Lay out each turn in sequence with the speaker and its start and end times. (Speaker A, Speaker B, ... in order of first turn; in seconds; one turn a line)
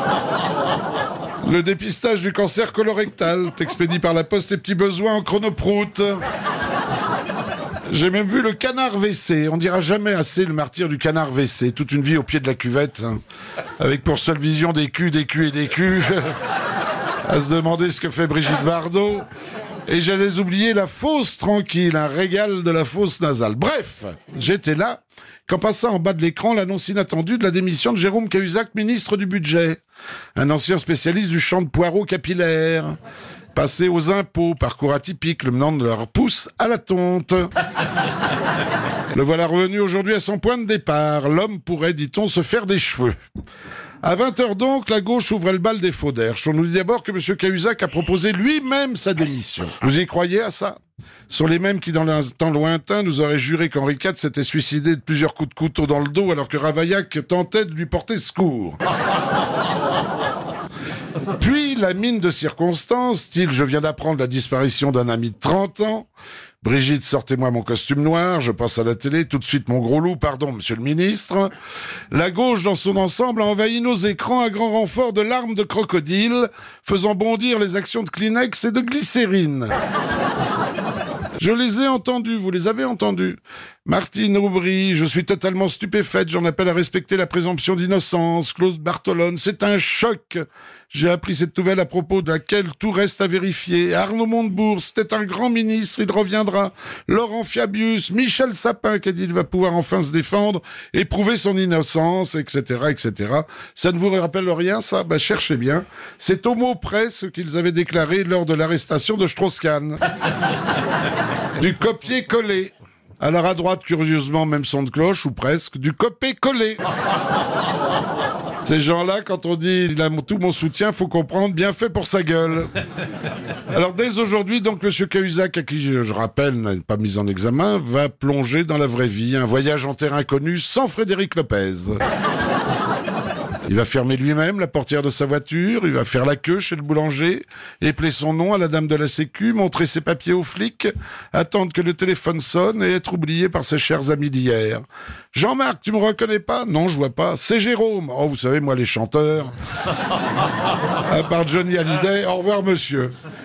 Speaker A: 1.4-6.2
Speaker A: 7.9-13.2
Speaker A: 13.8-16.3
Speaker A: 17.2-19.3
Speaker A: 19.9-29.8
Speaker A: 30.4-33.0
Speaker A: 33.5-37.5
Speaker A: 39.1-43.2
Speaker A: 44.0-50.8
Speaker A: 51.3-58.8
Speaker A: 61.4-66.1
Speaker A: 66.6-71.5
Speaker A: 72.1-79.7
Speaker A: 81.4-110.0
Speaker A: 111.6-116.8
Speaker A: 118.6-122.7
Speaker A: 123.7-132.0
Speaker A: 133.7-149.5
Speaker A: 151.0-153.1